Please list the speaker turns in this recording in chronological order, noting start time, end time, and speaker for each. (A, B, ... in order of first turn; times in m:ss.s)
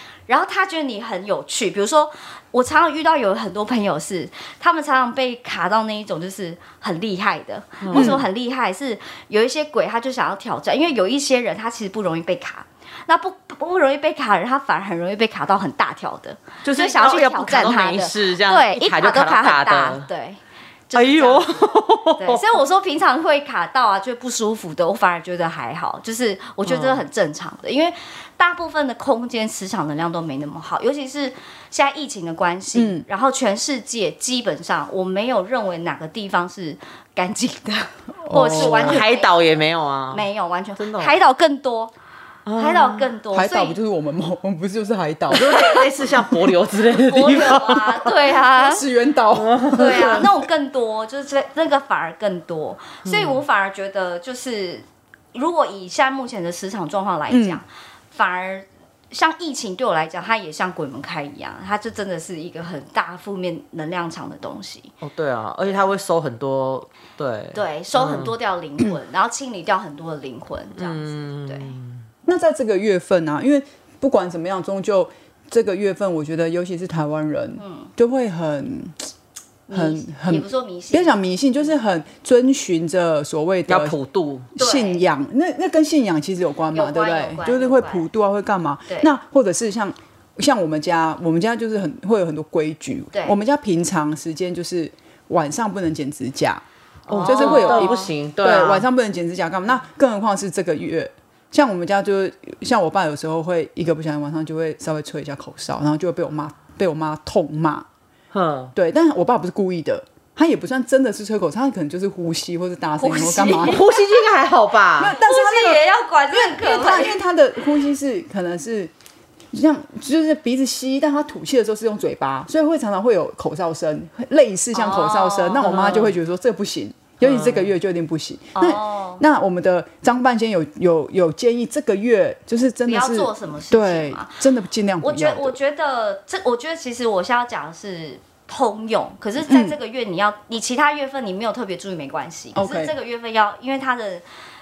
0:00.3-0:39.3 A
0:07.8-0:08.2 B
0:07.9-0:08.2 C
0:16.6-0:20.1 B
0:21.0-0:22.6 B
0:26.7-0:27.0 B
0:32.8-0:33.0 C
0:38.2-0:39.1 C
0:38.5-0:40.2 B
0:40.1-0:41.9 A
0:40.8-0:41.2 B
0:42.5-0:43.1 B
0:42.6-0:43.8 A
0:43.3-0:45.5 C
0:45.3-0:48.2 B
0:45.5-0:45.9 A
0:47.0-0:48.8 A
0:48.5-0:50.3 C
0:49.3-0:50.3 B
0:49.7-1:04.9 A
0:53.0-0:53.4 B
0:57.3-0:57.6 C
1:05.0-1:08.3 B
1:07.5-1:11.8 A
1:10.8-1:12.0 B
1:12.3-1:19.1 C
1:17.6-1:17.9 A
1:19.7-1:21.1 A
1:19.7-1:24.0 C
1:23.7-1:24.5 B
1:24.6-1:25.0 A
1:24.6-1:36.6 C
1:26.7-1:28.1 A
1:28.9-1:29.1 A
1:37.1-1:38.9 B
1:37.1-1:38.1 A
1:37.2-1:47.9 C
1:48.3-1:48.7 B
1:48.8-1:53.8 C
1:53.0-1:54.2 A
1:53.7-1:55.1 B
1:55.0-1:58.9 C
1:55.1-1:57.2 A
1:59.5-2:15.6 C
2:04.7-2:06.1 A
2:05.6-2:06.2 B
2:07.2-2:07.7 B
2:08.6-2:09.2 A
2:12.8-2:14.4 A
2:15.0-2:24.2 A
2:19.5-2:19.8 C
2:22.6-2:22.9 C